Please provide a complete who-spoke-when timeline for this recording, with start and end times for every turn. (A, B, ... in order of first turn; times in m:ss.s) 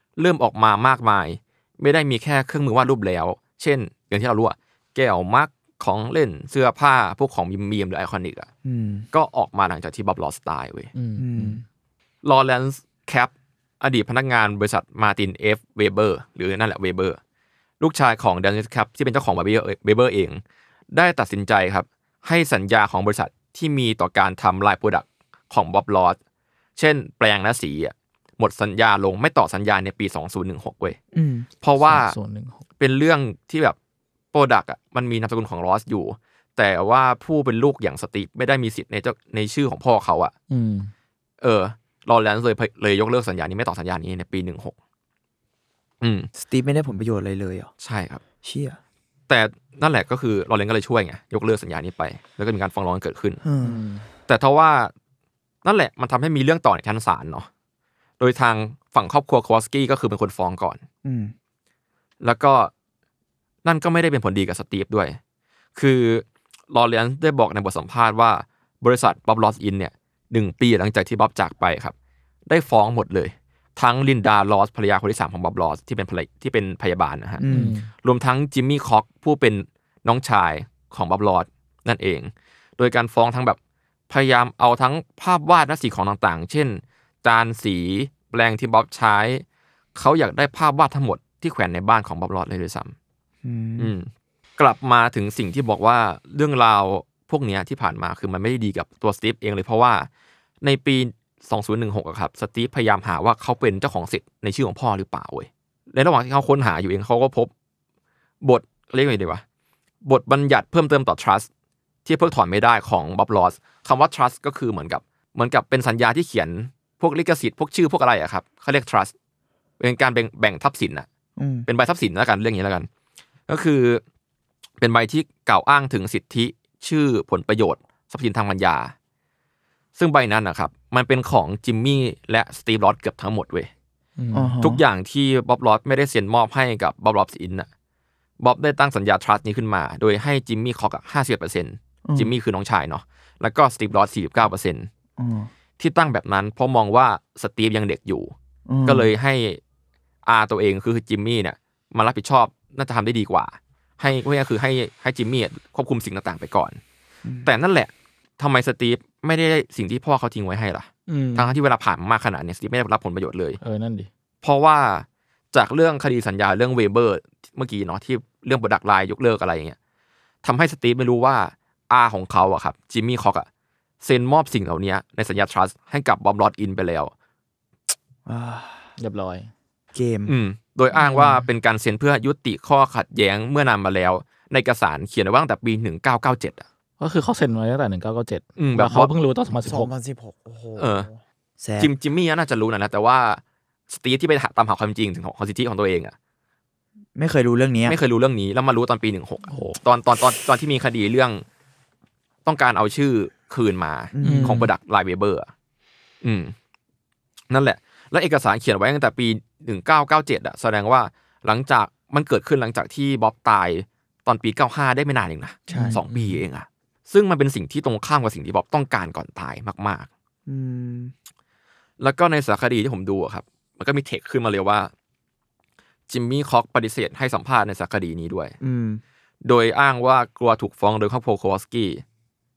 0:00.2-0:08.5 A
0:08.6-0:09.1 B
0:09.1-0:10.9 A
0:10.9-0:11.6 C
0:11.2-0:11.6 B
0:12.2-0:17.2 A
0:17.8-0:20.4 A
0:20.9-0:26.2 A
0:26.8-0:31.0 A
0:31.1-0:31.5 B
0:31.6-0:32.2 A
0:31.8-0:32.6 C
0:32.8-0:33.8 A
0:34.3-0:40.3 A
0:40.5-0:40.9 C
0:41.4-0:44.7 A
0:46.0-0:46.3 A
0:46.4-0:47.7 B
0:47.8-0:48.2 A
0:48.4-0:48.8 B
0:49.3-0:53.4 A
0:53.4-0:53.8 B
0:53.6-0:54.1 C
0:54.3-0:54.9 A
0:55.6-0:57.5 A
0:58.2-1:00.8 A
1:01.0-1:01.3 B
1:02.2-1:02.7 A
1:03.6-1:05.2 A
1:05.8-1:11.9 A
1:12.5-1:17.4 A
1:17.4-1:17.7 B
1:17.4-1:17.9 C
1:18.0-1:23.6 A
1:24.1-1:29.4 A
1:29.9-1:32.9 A
1:33.4-1:33.9 B
1:33.8-1:40.1 A
1:40.6-1:47.5 A
1:48.4-1:49.4 A
1:50.0-1:51.5 A
1:52.0-1:59.1 A
1:59.8-2:01.1 A
2:01.4-2:01.7 B
2:01.6-2:02.9 A
2:03.5-2:04.0 A
2:04.8-2:08.9 A
2:10.0-2:13.7 A
2:14.2-2:14.5 C
2:14.3-2:14.8 B
2:14.6-2:17.7 A
2:18.4-2:24.9 A
2:22.0-2:22.3 B
2:25.2-2:25.5 B
2:25.8-2:28.3 A
2:28.7-2:29.1 B
2:28.8-2:29.6 A
2:30.2-2:36.8 A
2:37.2-2:37.5 B
2:37.4-2:43.6 A
2:41.1-2:41.5 C
2:43.6-2:44.1 C
2:44.4-2:49.8 A
2:50.4-2:53.5 A
2:54.0-2:57.1 A
2:58.3-2:58.9 B
2:59.0-2:59.5 C
2:59.9-3:00.3 B
3:00.3-3:06.6 A
3:01.0-3:01.4 B
3:07.0-3:09.9 C
3:08.6-3:09.1 A
3:09.6-3:11.9 B
3:10.8-3:11.1 A
3:11.8-3:16.1 A
3:17.2-3:18.0 B
3:17.8-3:21.4 A
3:19.5-3:19.8 C
3:22.4-3:25.5 A
3:24.1-3:24.7 B
3:24.2-3:24.7 C
3:26.2-3:26.5 A
3:27.5-3:40.1 A
3:35.7-3:36.0 B
3:35.7-3:36.4 C
3:40.4-3:41.1 B
3:42.0-3:44.9 A
3:46.1-3:48.6 A
3:48.6-3:49.0 B
3:49.4-3:52.0 A